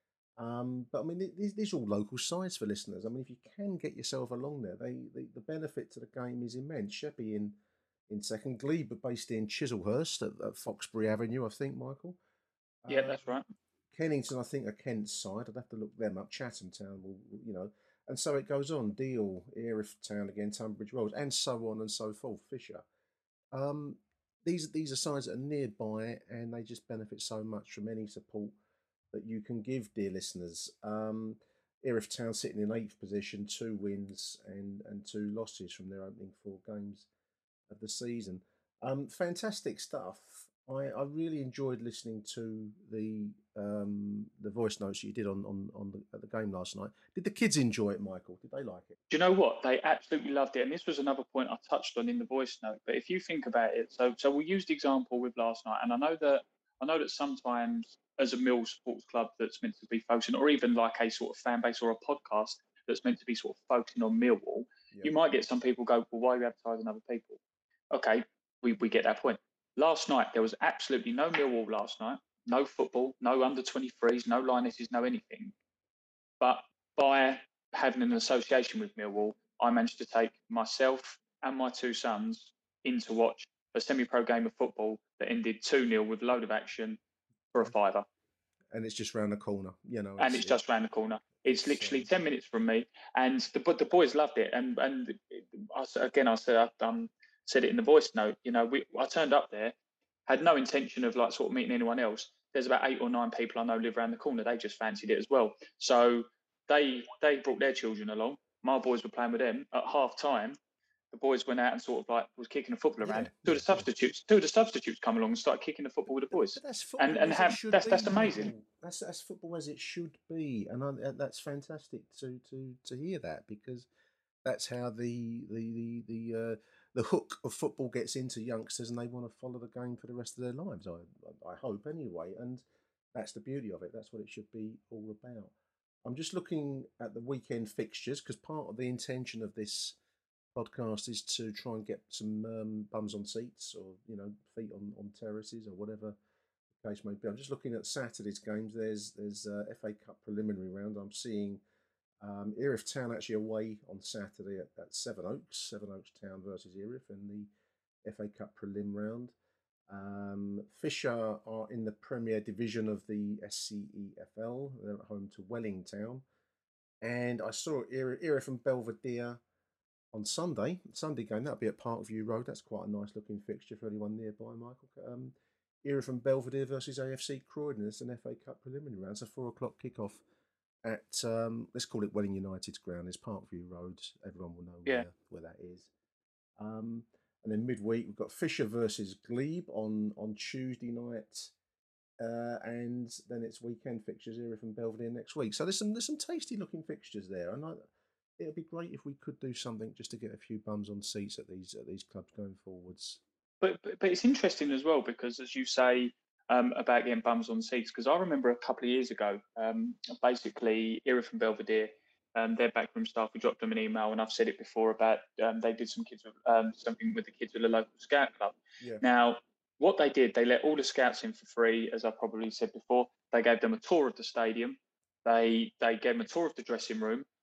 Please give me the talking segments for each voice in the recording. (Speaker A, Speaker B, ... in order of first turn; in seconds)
Speaker A: 0.4-7.6, 8.1-12.2, 12.8-13.3, 13.9-22.8, 23.5-28.6, 29.1-37.1, 37.7-49.0, 88.7-90.6, 91.4-92.1, 113.0-113.9, 116.1-123.9, 124.5-135.5, 136.1-140.0, 140.6-146.2, 146.8-151.6, 152.2-157.5, 158.1-159.3, 159.9-166.2, 167.0-169.4, 170.1-180.2, 180.8-185.9, 186.6-191.5, 192.2-197.8, 198.4-203.2
Speaker B: 12.9-13.5, 49.1-67.4, 67.9-75.5, 76.4-87.0, 87.5-88.0, 90.2-99.7, 100.3-110.6, 111.1-118.5, 203.6-227.3